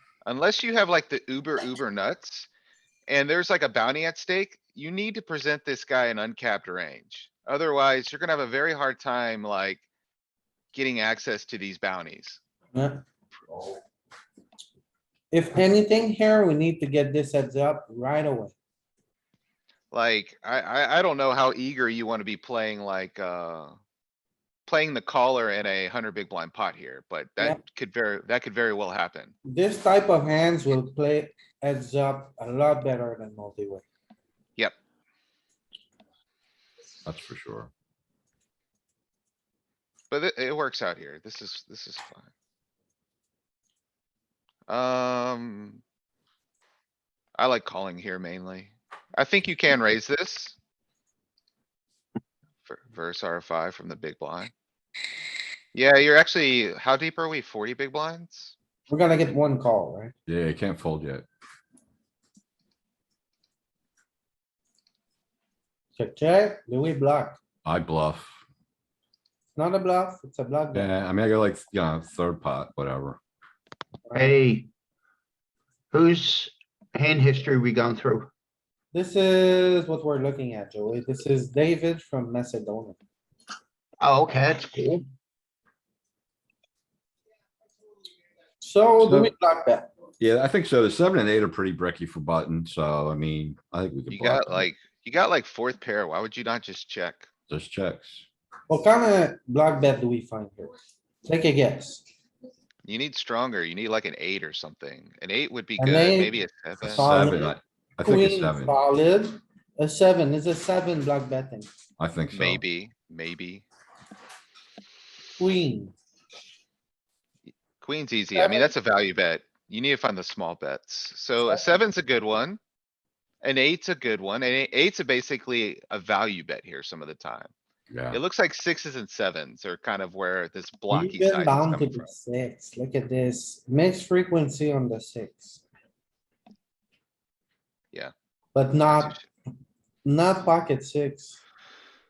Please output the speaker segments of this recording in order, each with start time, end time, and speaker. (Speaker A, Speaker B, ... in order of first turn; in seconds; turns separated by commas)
Speaker A: 0.2-2.5, Speaker A: 3.1-9.8, Speaker A: 10.7-12.4, Speaker B: 12.7-13.0, Speaker B: 15.3-18.5, Speaker A: 19.9-23.8, Speaker A: 24.7-29.3, Speaker B: 29.5-33.8, Speaker C: 37.0-37.7, Speaker A: 40.1-42.3, Speaker A: 44.7-45.8, Speaker A: 47.4-50.6, Speaker A: 52.7-54.5, Speaker A: 55.7-58.5, Speaker B: 58.9-60.1, Speaker C: 60.3-61.2, Speaker B: 66.0-67.4, Speaker C: 67.6-68.4, Speaker B: 69.5-70.9, Speaker C: 70.7-73.2, Speaker B: 74.1-74.3, Speaker D: 74.1-74.7, Speaker D: 75.9-78.3, Speaker B: 78.9-83.0, Speaker D: 84.0-85.1, Speaker B: 88.6-89.9, Speaker C: 89.0-89.3, Speaker C: 90.2-94.7, Speaker A: 94.1-97.3, Speaker C: 97.5-98.2, Speaker B: 98.7-100.7, Speaker B: 101.2-102.0, Speaker A: 102.8-107.1, Speaker B: 105.8-106.4, Speaker C: 106.8-108.8, Speaker B: 106.9-107.5, Speaker B: 108.0-111.7, Speaker C: 112.0-112.6, Speaker A: 112.3-113.7, Speaker B: 115.4-115.9, Speaker A: 117.8-122.6, Speaker B: 118.3-118.7, Speaker A: 123.4-127.5, Speaker C: 127.9-128.2, Speaker A: 128.1-132.1, Speaker B: 130.9-135.6, Speaker B: 138.5-139.2, Speaker A: 138.8-139.3, Speaker B: 140.0-141.4